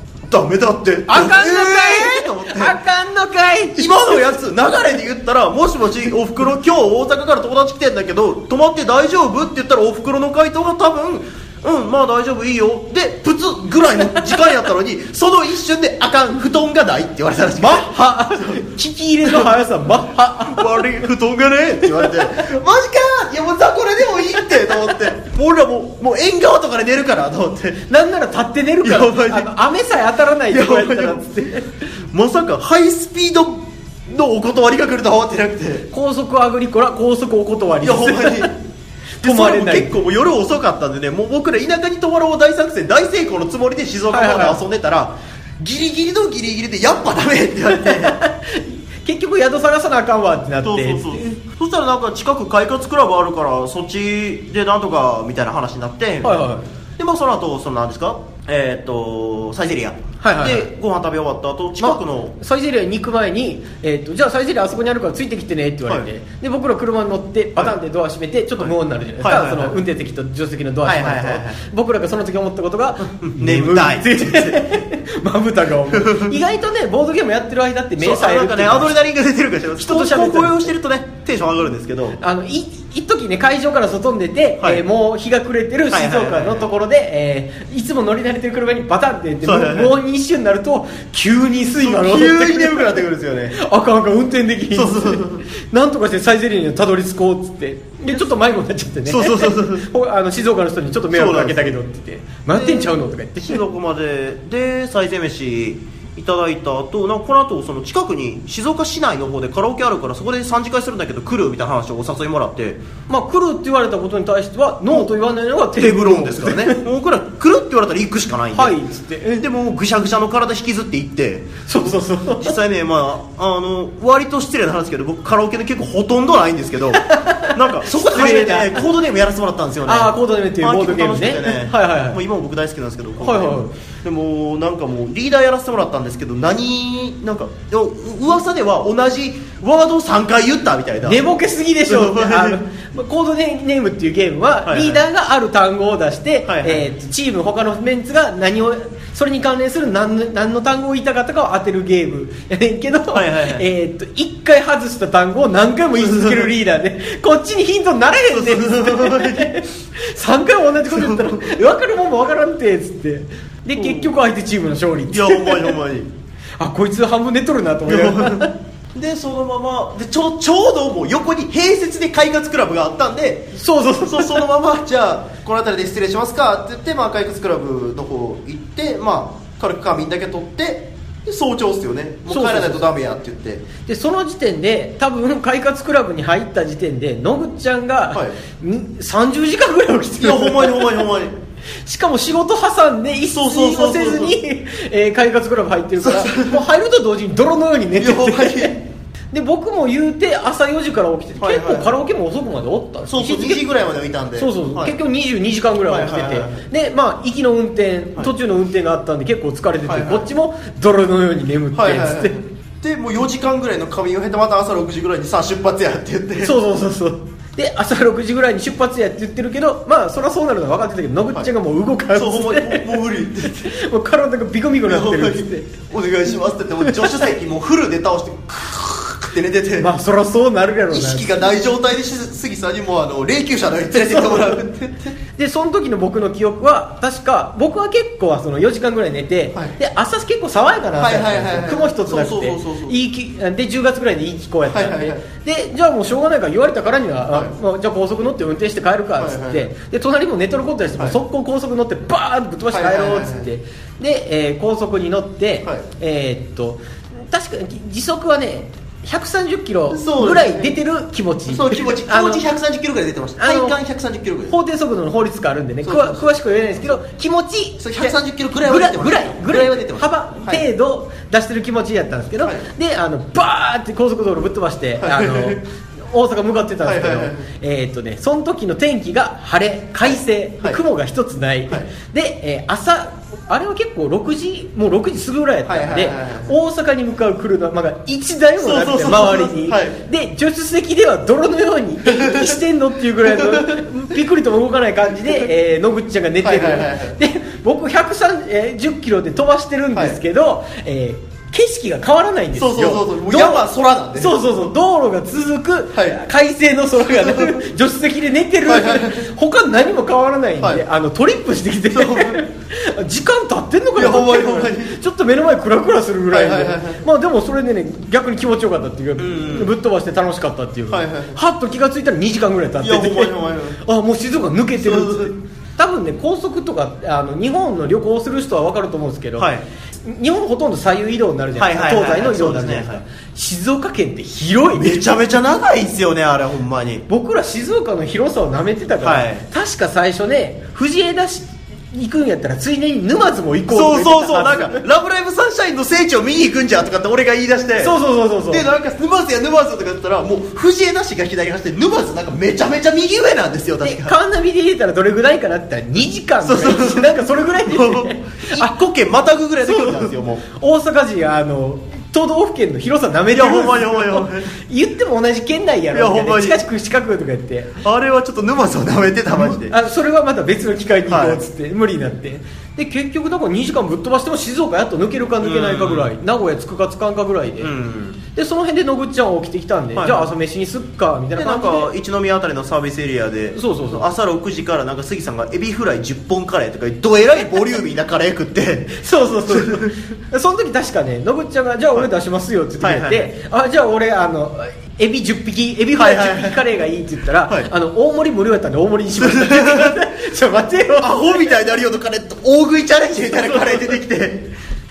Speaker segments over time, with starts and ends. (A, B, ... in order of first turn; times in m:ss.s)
0:00.3-0:02.8 A
0:01.1-0:04.3 B
0:03.7-0:18.6 A
0:17.6-0:21.1 B
0:20.4-0:27.8 A
0:21.8-0:22.5 B
0:24.3-0:25.0 B
0:27.9-0:31.8 B
0:28.8-0:29.5 A
0:30.5-0:31.2 A
0:32.1-0:35.9 A
0:35.9-0:38.5 B
0:37.8-0:38.5 A
0:39.2-0:39.9 B
0:39.2-0:48.2 A
0:44.1-0:44.6 B
0:47.7-0:51.3 B
0:50.6-1:02.4 A
0:56.2-0:56.6 B
1:00.2-1:00.7 B
1:01.8-1:19.0 B
1:08.6-1:09.8 A
1:10.8-1:11.6 A
1:13.2-1:14.6 A
1:15.9-1:16.3 A
1:18.0-1:22.2 A
1:19.8-1:20.7 B
1:22.2-1:43.6 B
1:25.9-1:26.7 A
1:29.4-1:29.9 A
1:31.7-1:33.6 A
1:34.7-1:35.4 A
1:39.1-1:39.8 A
1:41.1-1:41.8 A
1:42.5-1:52.8 A
1:53.1-1:56.8 B
1:55.8-1:58.8 A
1:58.5-1:59.4 B
1:59.4-2:21.2 A
2:01.7-2:02.6 B
2:06.9-2:08.8 B
2:09.8-2:12.2 B
2:13.2-2:13.7 B
2:21.0-2:45.8 B
2:21.9-2:22.6 A
2:24.6-2:25.0 A
2:26.4-2:26.9 A
2:33.1-2:33.6 A
2:35.9-2:36.5 A
2:38.3-2:39.5 A
2:40.9-2:41.4 A
2:43.8-2:44.1 A
2:45.1-2:46.1 A
2:46.6-2:48.5 B
2:47.8-3:03.6 A
2:53.5-2:54.4 B
3:02.3-3:02.8 B
3:03.9-3:11.0 B
3:08.1-3:08.4 A
3:10.2-3:11.3 A
3:11.8-3:23.6 B
3:13.3-3:14.4 A
3:16.0-3:16.6 A
3:18.0-3:18.7 A
3:21.4-3:22.0 A
3:23.1-3:24.9 A
3:24.4-3:32.4 B
3:25.9-3:26.6 A
3:29.8-3:30.3 A
3:31.7-3:36.5 A
3:36.4-3:45.7 B
3:42.1-3:43.6 A
3:44.9-3:49.9 A
3:46.8-3:47.3 B
3:49.8-3:51.6 B
3:50.9-3:55.2 A
3:53.9-3:54.6 B
3:55.4-4:22.4 B
4:01.0-4:02.9 A
4:04.6-4:05.2 A
4:09.2-4:09.7 A
4:12.7-4:13.5 A
4:19.9-4:20.7 A
4:21.5-4:24.5 A
4:23.4-4:23.8 B
4:24.5-5:29.5 B
4:25.8-4:26.3 A
4:27.8-4:30.6 A
4:32.4-4:32.7 A
4:35.0-4:35.6 A
4:36.8-4:37.5 A
4:40.0-4:40.8 A
4:45.6-4:46.5 A
4:48.6-4:50.0 A
4:52.1-4:52.5 A
4:53.2-4:53.8 A
4:56.4-4:57.2 A
5:02.6-5:04.4 A
5:07.0-5:07.5 A
5:08.6-5:09.2 A
5:11.9-5:12.4 A
5:14.0-5:15.0 A
5:16.3-5:17.0 A
5:19.2-5:19.7 A
5:20.9-5:21.4 A
5:22.8-5:23.8 A
5:24.8-5:25.3 A
5:29.4-5:29.6 A
5:30.0-5:35.2 B
5:31.6-5:33.0 A
5:34.7-5:37.0 A
5:37.1-5:44.8 B
5:39.0-5:39.5 A
5:43.7-5:47.9 A
5:47.8-5:48.6 B
5:48.5-5:54.1 A
5:53.8-5:58.7 B
5:56.4-6:00.4 A
5:59.6-6:07.8 B
6:03.3-6:04.5 A
6:05.9-6:06.6 A
6:07.8-6:09.7 A
6:09.3-6:17.7 B
6:11.1-6:11.4 A
6:15.4-6:16.1 A
6:17.6-6:18.2 A
6:18.3-6:21.9 B
6:19.9-6:20.3 A
6:21.4-6:29.0 A
6:23.5-6:24.0 B
6:28.9-6:41.4 B
6:29.5-6:29.9 A
6:32.8-6:33.3 A
6:36.0-6:36.6 A
6:39.2-6:39.9 A
6:41.0-6:44.5 A
6:43.4-6:44.0 B